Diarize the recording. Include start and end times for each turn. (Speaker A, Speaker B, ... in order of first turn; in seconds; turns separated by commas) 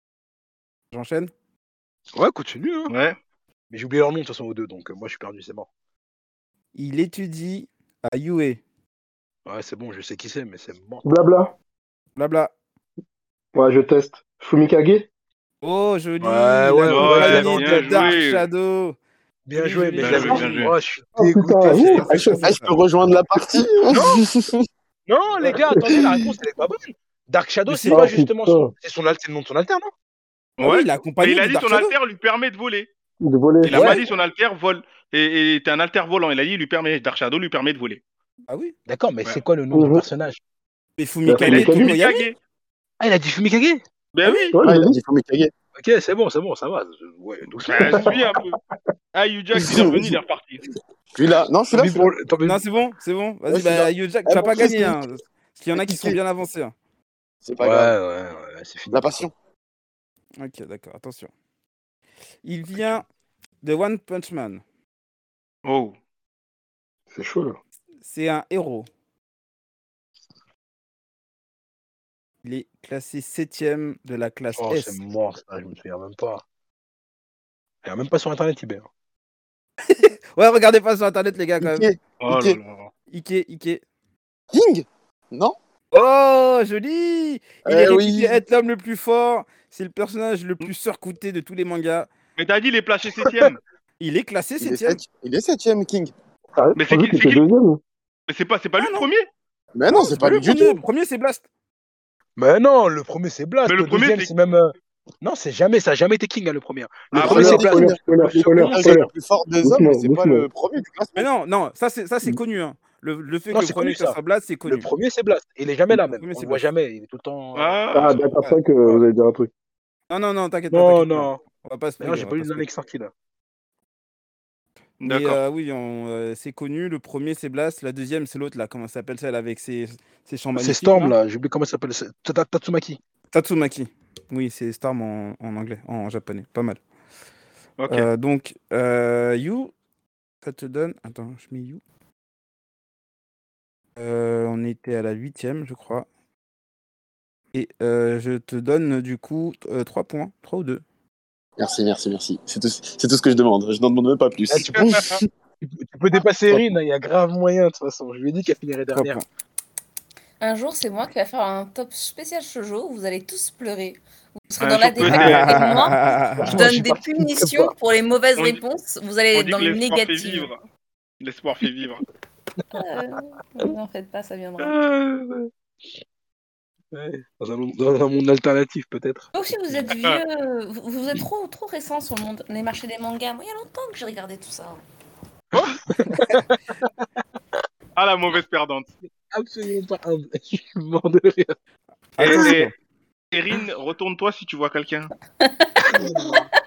Speaker A: 0.9-1.3, Speaker B: 2.1-2.9, Speaker C: 2.9-3.1, Speaker B: 3.7-5.7, Speaker A: 6.7-8.6, Speaker B: 9.4-11.0, Speaker D: 11.0-11.5, Speaker A: 12.2-12.5, Speaker D: 13.5-15.1, Speaker A: 15.6-19.0, Speaker B: 16.2-18.1, Speaker C: 16.9-18.4, Speaker B: 19.5-22.1, Speaker A: 19.6-20.7, Speaker C: 20.0-20.7, Speaker D: 21.2-22.5, Speaker A: 21.8-22.7, Speaker E: 22.1-24.6, Speaker B: 23.9-24.2, Speaker B: 25.1-29.9, Speaker D: 25.4-26.0, Speaker E: 25.9-26.2, Speaker A: 27.7-28.1, Speaker D: 27.9-28.7, Speaker C: 30.6-32.9, Speaker A: 30.6-31.9, Speaker D: 33.2-34.0, Speaker C: 33.6-38.0, Speaker B: 33.7-34.1, Speaker A: 38.5-38.7, Speaker B: 38.9-40.4, Speaker D: 39.7-40.0, Speaker A: 41.0-42.3, Speaker D: 41.3-42.0, Speaker C: 41.4-42.4, Speaker B: 43.0-43.8, Speaker C: 44.1-44.6, Speaker D: 44.5-45.0, Speaker E: 44.6-45.5, Speaker B: 45.8-48.2, Speaker C: 47.6-48.6, Speaker D: 47.8-48.2, Speaker C: 49.1-50.6, Speaker E: 49.6-50.2, Speaker E: 51.1-52.1, Speaker B: 51.7-52.6, Speaker A: 52.4-56.7, Speaker E: 53.5-55.0, Speaker E: 55.8-56.2, Speaker E: 57.4-57.9, Speaker B: 57.6-59.3, Speaker E: 58.9-59.3, Speaker A: 60.4-61.3, Speaker A: 62.4-63.0, Speaker A: 63.6-64.6, Speaker C: 65.6-65.9, Speaker D: 67.1-67.6, Speaker A: 68.0-68.9, Speaker A: 72.4-75.0, Speaker B: 74.6-76.4, Speaker B: 77.8-78.9, Speaker A: 79.9-81.9, Speaker E: 81.6-82.6, Speaker C: 82.2-82.9, Speaker A: 83.1-83.8, Speaker E: 84.5-85.5, Speaker A: 85.9-92.1, Speaker E: 87.6-88.4, Speaker C: 92.4-93.6, Speaker A: 94.0-95.0, Speaker E: 94.6-96.1, Speaker D: 96.5-97.8, Speaker C: 96.8-97.4, Speaker C: 98.3-99.2, Speaker A: 98.8-99.0, Speaker E: 99.7-100.8, Speaker A: 99.9-101.4, Speaker B: 102.4-108.8, Speaker C: 103.7-104.3, Speaker C: 107.1-107.5, Speaker E: 107.1-111.3, Speaker D: 107.2-109.1, Speaker D: 109.6-110.5, Speaker A: 111.1-114.9, Speaker B: 113.5-117.8, Speaker A: 115.9-116.7, Speaker C: 117.5-118.3, Speaker D: 117.9-119.5, Speaker A: 120.1-122.7, Speaker B: 120.7-121.4, Speaker B: 122.0-123.1, Speaker C: 125.0-125.4, Speaker A: 125.0-131.2, Speaker B: 130.6-133.0, Speaker A: 133.3-136.8, Speaker C: 137.8-138.1, Speaker A: 137.9-139.7, Speaker A: 140.4-141.8, Speaker A: 144.0-146.1, Speaker A: 147.5-150.8, Speaker E: 151.6-155.2, Speaker B: 154.5-155.1, Speaker C: 154.6-155.2, Speaker B: 155.6-159.2, Speaker A: 158.9-159.2, Speaker F: 160.4-170.5, Speaker C: 164.6-165.6, Speaker A: 165.0-166.7, Speaker B: 166.4-167.7, Speaker C: 169.3-170.6, Speaker C: 171.2-172.0, Speaker F: 172.7-174.7, Speaker B: 174.6-175.5, Speaker B: 176.9-179.3, Speaker F: 179.3-184.8, Speaker B: 185.5-187.0, Speaker C: 187.9-188.9, Speaker B: 189.3-191.5, Speaker A: 192.2-192.7, Speaker C: 192.2-192.7, Speaker B: 192.2-192.5, Speaker C: 193.3-195.1, Speaker F: 195.4-196.1, Speaker B: 195.9-196.5